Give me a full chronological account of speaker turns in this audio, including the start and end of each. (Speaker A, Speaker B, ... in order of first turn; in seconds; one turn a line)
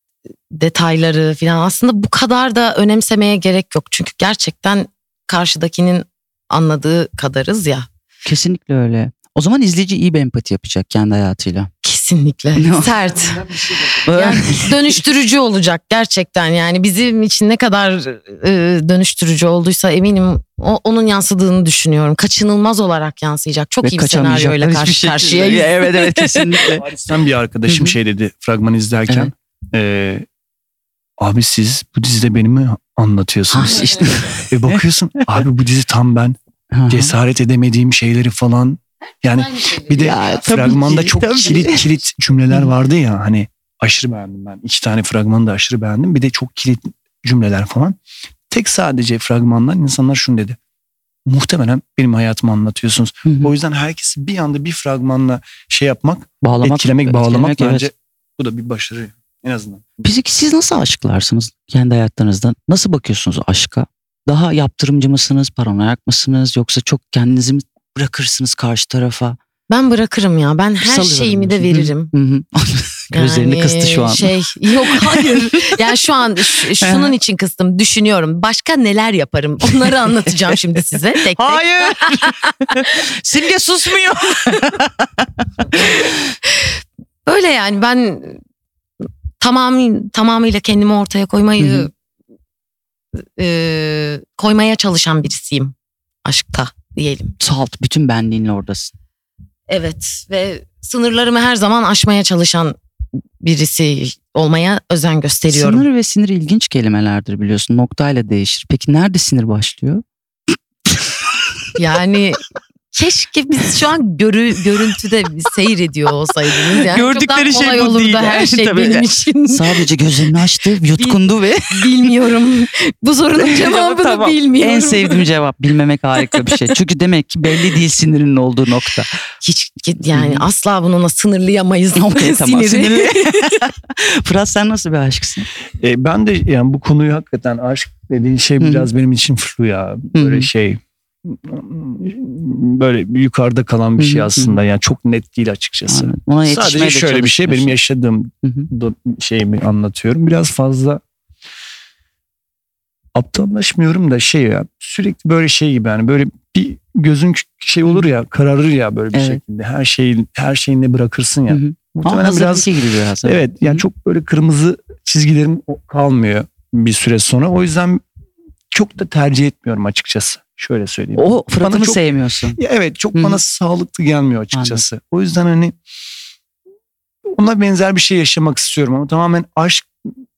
Speaker A: 0.5-7.9
Speaker B: 8.2-11.7
Speaker A: 11.8-26.7
Speaker B: 12.6-12.9
Speaker C: 13.6-13.9
Speaker B: 14.1-14.9
Speaker B: 23.8-26.9
Speaker C: 26.8-30.3
Speaker B: 27.7-28.0
Speaker C: 31.2-33.9
Speaker B: 33.5-35.3
Speaker A: 33.7-34.2
Speaker C: 34.5-36.4
Speaker B: 36.7-37.1
Speaker C: 36.9-48.0
Speaker A: 39.5-40.4
Speaker B: 40.0-42.7
Speaker C: 48.5-50.6
Speaker C: 51.3-59.9
Speaker B: 53.2-53.5
Speaker B: 56.4-57.9
Speaker B: 60.0-69.4
Speaker A: 69.7-72.1
Speaker B: 70.8-75.8
Speaker A: 73.1-82.8
Speaker B: 76.8-77.2
Speaker B: 79.9-80.5
Speaker B: 81.3-85.3
Speaker A: 85.7-86.1
Speaker A: 87.3-88.4
Speaker A: 89.4-91.9
Speaker B: 91.6-91.9
Speaker A: 93.4-95.7
Speaker A: 96.2-97.3
Speaker B: 97.4-98.9
Speaker A: 99.7-102.8
Speaker A: 103.4-105.9
Speaker B: 105.5-110.0
Speaker A: 111.8-112.4
Speaker A: 112.9-119.8
Speaker B: 116.9-121.9
Speaker A: 121.0-125.3
Speaker B: 123.3-129.2
Speaker A: 126.2-126.5
Speaker A: 129.4-133.5
Speaker B: 130.1-130.4
Speaker B: 131.9-135.5
Speaker C: 135.8-151.0
Speaker B: 138.6-138.9
Speaker B: 140.1-140.5
Speaker B: 144.0-144.6
Speaker B: 145.9-147.8
Speaker B: 148.4-148.7
Speaker C: 153.2-162.7
Speaker B: 157.8-158.1
Speaker B: 159.1-159.4
Speaker B: 161.5-163.8
Speaker C: 163.2-168.0
Speaker C: 168.7-175.8
Speaker B: 171.2-172.6
Speaker B: 173.1-173.4
Speaker B: 174.5-174.8
Speaker C: 177.3-179.9